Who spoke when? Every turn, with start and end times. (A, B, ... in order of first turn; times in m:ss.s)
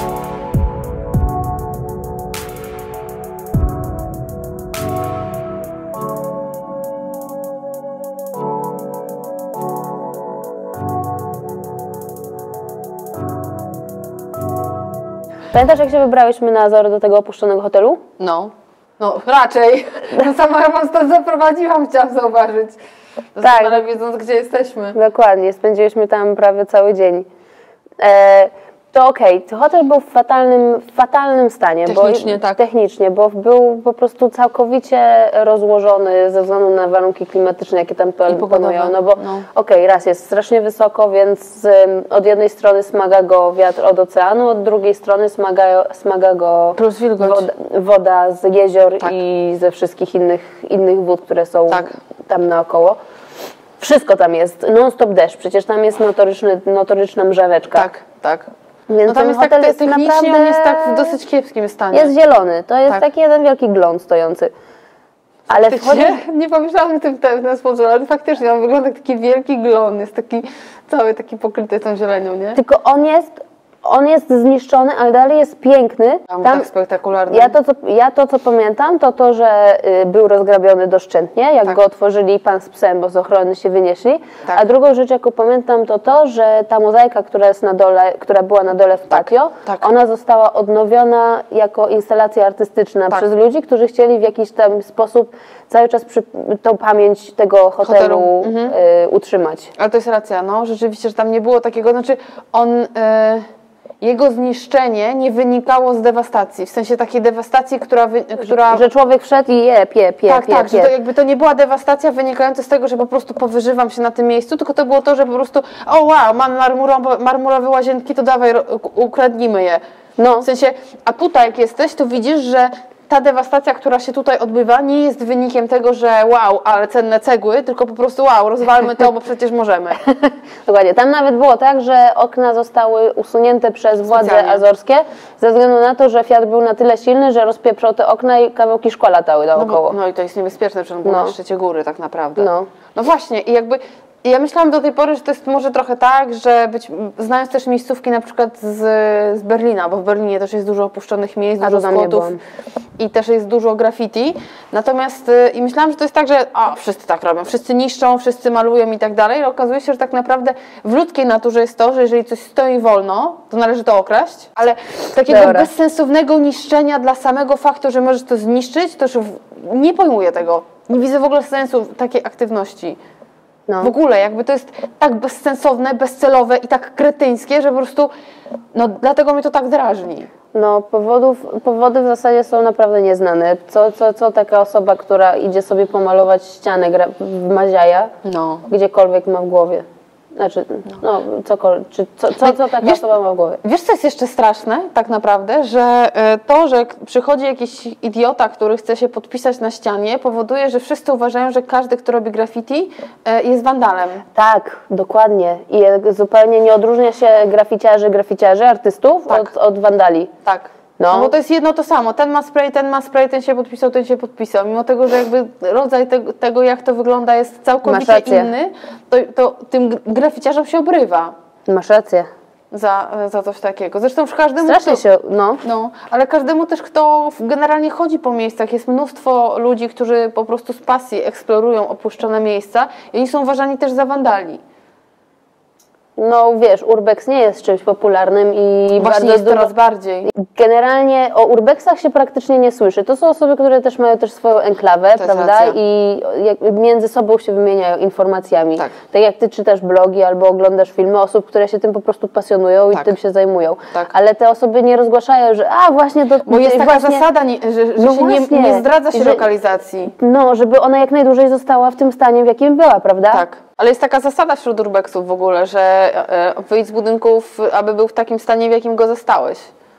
0:15.5-0:18.0 A
0:18.2-0:22.8 B
0:23.4-0:25.0 B
0:23.4-0:23.8 A
0:24.9-0:27.3 A
0:28.0-0:53.0 A
0:31.8-0:32.6 B
0:38.3-0:39.4 B
0:46.8-0:47.4 B
0:51.7-0:52.0 B
0:53.8-0:57.9 A
0:57.7-0:58.5 B
0:58.9-1:01.1 A
0:59.1-1:02.1 B
1:01.9-1:04.5 A
1:05.5-1:12.6 B
1:05.5-1:06.2 A
1:12.6-1:13.3 A
1:13.8-1:16.7 A
1:16.3-1:17.5 B
1:17.3-1:39.7 A
1:29.1-1:29.9 B
1:37.8-1:38.7 B
1:39.8-1:43.4 B
1:44.0-1:48.8 B
1:48.4-1:50.9 A
1:50.3-1:59.8 B
2:00.2-2:00.5 A
2:00.4-2:10.0 B
2:10.6-2:20.0 A
2:14.1-2:14.6 B
2:19.5-2:32.4 B
2:21.0-2:21.3 A
2:22.4-2:22.7 A
2:31.6-2:32.4 A
2:33.0-2:53.0 B
2:45.2-2:45.7 A
2:53.7-2:53.9 A
2:53.8-2:58.1 B
2:58.7-3:00.3 B
3:00.5-3:08.1 A
3:08.2-3:08.7 B
3:08.7-3:13.6 A
3:12.4-3:13.0 B
3:13.6-3:24.2 B
3:24.3-3:30.3 A
3:30.4-3:41.3 B
3:31.0-3:31.3 A
3:37.8-3:38.5 A
3:41.7-3:42.3 A
3:42.7-3:45.0 B
3:44.6-3:45.6 A
3:45.6-3:54.6 B
3:56.2-3:59.7 A
3:59.0-4:00.3 B
4:00.2-4:17.2 A
4:05.2-4:05.8 B
4:16.4-4:20.1 B
4:18.0-4:19.4 A
4:20.1-4:23.4 A
4:23.3-4:29.7 B